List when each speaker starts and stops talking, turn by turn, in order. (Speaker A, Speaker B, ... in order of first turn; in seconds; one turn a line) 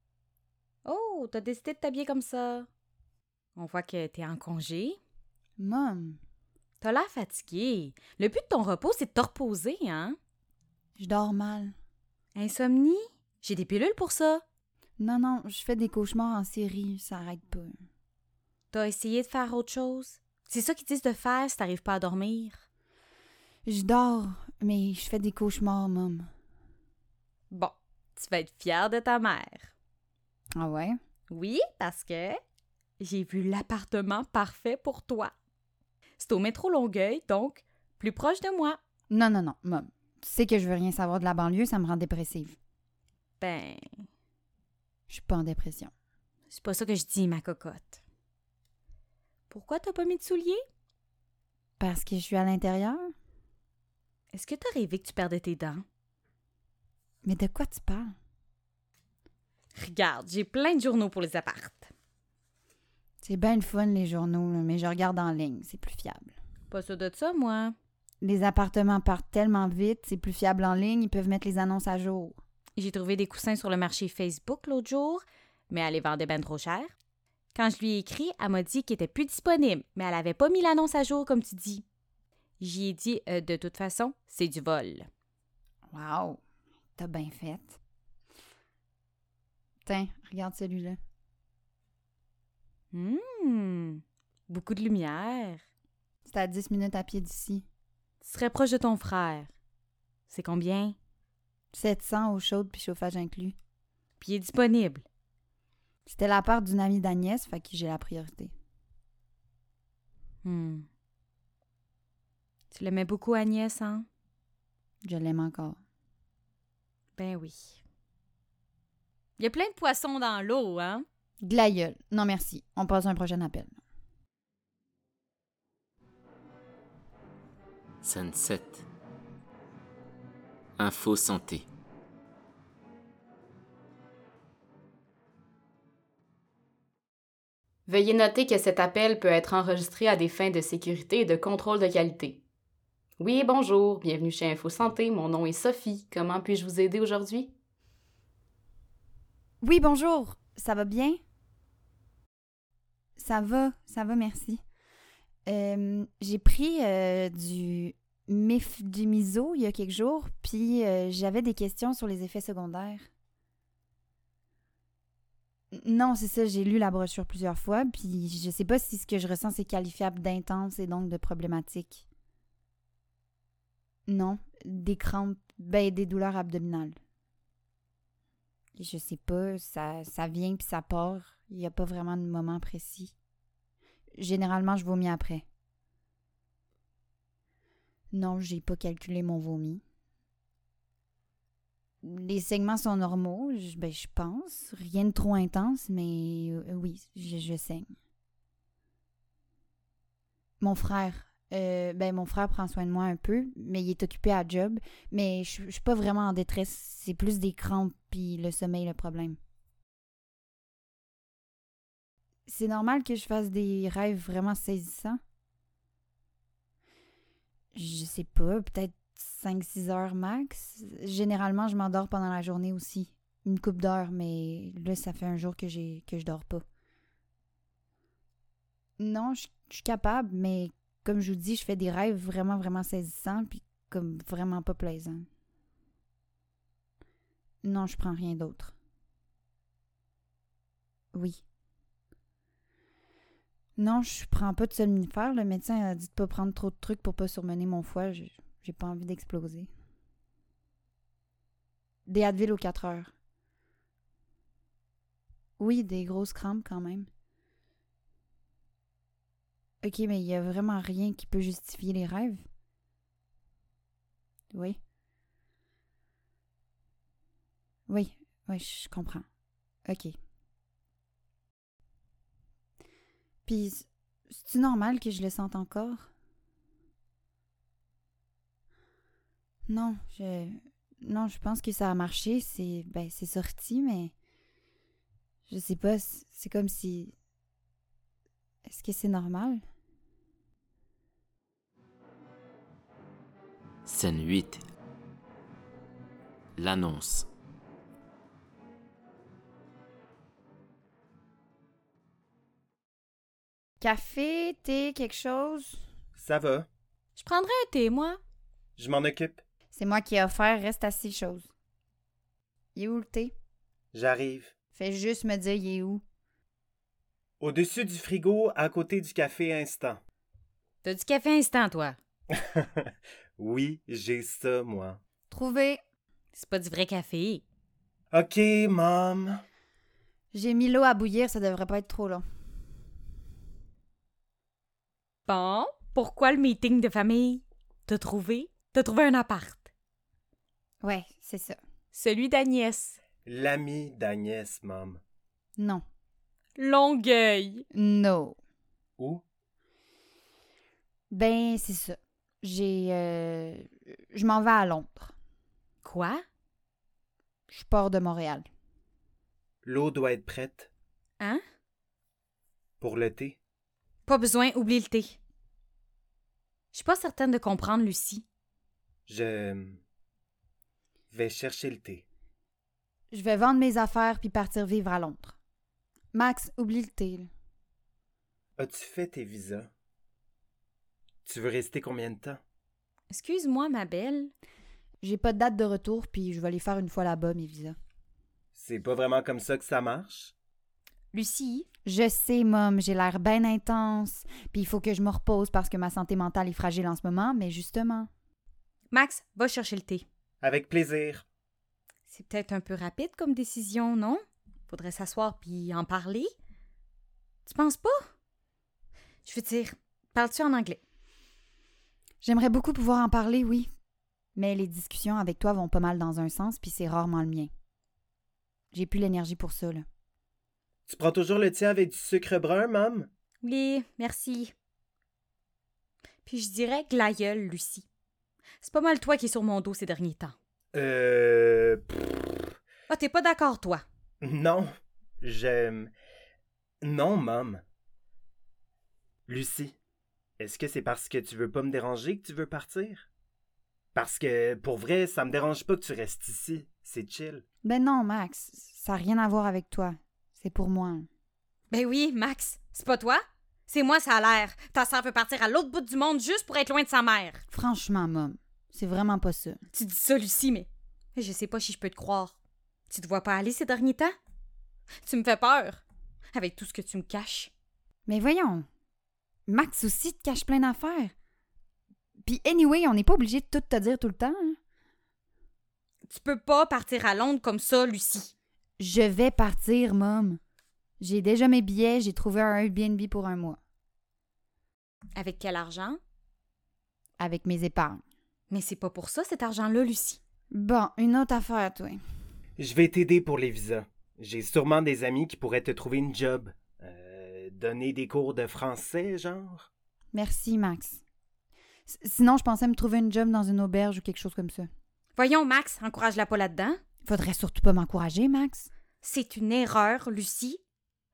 Speaker A: 0.8-2.7
Speaker A: 3.6-5.0
Speaker B: 5.6-6.2
Speaker A: 6.8-10.2
Speaker B: 11.0-11.8
Speaker A: 12.4-14.4
Speaker B: 15.0-17.7
Speaker A: 18.7-22.6
Speaker B: 23.6-26.3
Speaker A: 27.5-29.7
Speaker B: 30.6-31.0
Speaker A: 31.3-32.4
Speaker A: 33.0-35.3
Speaker A: 36.2-38.8
Speaker B: 39.1-42.6
Speaker A: 43.4-44.0
Speaker B: 45.1-45.9
Speaker A: 46.5-48.0
Speaker A: 49.5-50.6
Speaker B: 51.8-53.1
Speaker A: 54.3-55.8
Speaker B: 57.2-58.1
Speaker A: 59.8-61.9
Speaker B: 63.2-66.3
Speaker A: 66.7-67.8
Speaker B: 68.2-72.4
Speaker A: 72.8-76.9
Speaker A: 77.5-81.8
Speaker A: 82.6-85.1
Speaker B: 85.9-86.4
Speaker B: 87.0-87.8
Speaker B: 89.8-91.0
Speaker A: 92.9-95.6
Speaker B: 96.3-97.6
Speaker A: 98.2-99.5
Speaker A: 100.3-101.0
Speaker B: 101.7-103.6
Speaker A: 104.2-105.0
Speaker B: 106.1-108.5
Speaker A: 110.4-110.9
Speaker A: 112.7-114.1
Speaker B: 115.0-115.8
Speaker A: 117.2-117.8
Speaker A: 119.4-121.1
Speaker B: 121.4-123.8
Speaker C: 128.0-128.8
Speaker C: 130.8-131.7
Speaker D: 137.9-142.4
Speaker D: 143.2-147.5
Speaker B: 149.6-151.2
Speaker B: 153.2-154.6
Speaker B: 155.5-163.1
Speaker B: 165.7-172.1
Speaker B: 174.1-177.0
Speaker B: 178.8-183.1
Speaker B: 184.2-185.4
Speaker B: 188.1-189.8
Speaker B: 192.0-197.9
Speaker B: 200.6-209.4
Speaker B: 212.5-215.2
Speaker B: 217.7-226.6
Speaker B: 229.0-235.3
Speaker B: 237.6-238.7
Speaker B: 241.1-241.4
Speaker B: 243.8-249.7
Speaker B: 252.1-253.1
Speaker B: 255.6-257.1
Speaker B: 259.8-262.4
Speaker B: 264.5-264.8
Speaker B: 267.9-269.3
Speaker B: 269.9-270.1
Speaker B: 273.5-276.1
Speaker B: 279.7-284.1
Speaker B: 285.5-287.1
Speaker B: 288.6-289.6
Speaker C: 293.9-294.6
Speaker C: 296.6-297.3
Speaker B: 303.8-305.8
Speaker E: 306.1-306.7
Speaker A: 307.1-308.2
Speaker E: 308.8-309.4
Speaker B: 309.7-311.5
Speaker B: 312.8-313.3
Speaker E: 313.9-314.5
Speaker B: 314.8-316.0
Speaker E: 317.4-320.0
Speaker A: 320.8-322.0
Speaker E: 322.3-325.0
Speaker B: 325.3-325.8
Speaker A: 326.3-327.4
Speaker E: 328.1-329.4
Speaker B: 330.3-332.2
Speaker A: 335.3-339.7
Speaker B: 340.8-341.6
Speaker A: 341.9-343.0
Speaker E: 343.2-345.0
Speaker B: 345.6-345.8
Speaker A: 346.6-347.6
Speaker B: 347.7-348.4
Speaker E: 349.0-349.2
Speaker B: 351.1-355.1
Speaker A: 355.8-356.2
Speaker B: 357.5-358.5
Speaker E: 359.6-360.7
Speaker E: 362.8-363.4
Speaker A: 364.1-365.2
Speaker A: 366.7-368.2
Speaker E: 369.1-369.8
Speaker E: 371.1-372.0
Speaker B: 373.1-375.4
Speaker B: 376.1-377.3
Speaker E: 378.6-379.7
Speaker E: 381.2-382.4
Speaker A: 383.1-384.3
Speaker B: 385.0-387.8
Speaker E: 388.6-390.3
Speaker A: 391.1-391.6
Speaker B: 391.9-398.1
Speaker A: 398.9-400.1
Speaker E: 400.4-401.2
Speaker A: 402.1-406.3
Speaker A: 407.4-408.0
Speaker A: 409.2-410.8
Speaker B: 412.2-413.7
Speaker B: 414.4-417.5
Speaker B: 418.7-419.9
Speaker E: 420.9-423.1
Speaker A: 423.4-424.5
Speaker A: 426.2-427.9
Speaker A: 428.6-430.4
Speaker E: 430.7-432.5
Speaker A: 432.9-433.8
Speaker E: 434.2-435.9
Speaker E: 436.8-437.6
Speaker E: 439.3-439.8
Speaker E: 440.4-443.1
Speaker E: 443.9-447.4
Speaker B: 447.6-451.1
Speaker A: 451.7-457.4
Speaker B: 457.5-459.6
Speaker A: 459.7-462.4
Speaker A: 462.9-464.1
Speaker A: 465.0-465.8
Speaker A: 466.3-467.5
Speaker B: 468.1-468.7
Speaker B: 469.5-471.1
Speaker B: 472.2-474.6
Speaker A: 476.1-478.3
Speaker B: 478.8-480.4
Speaker B: 481.0-483.6
Speaker A: 485.1-486.0
Speaker B: 487.2-488.0
Speaker A: 488.5-490.2
Speaker B: 490.5-492.0
Speaker E: 492.6-499.7
Speaker B: 500.1-501.0
Speaker B: 501.9-504.7
Speaker A: 505.1-506.8
Speaker B: 507.1-508.7
Speaker A: 509.0-510.6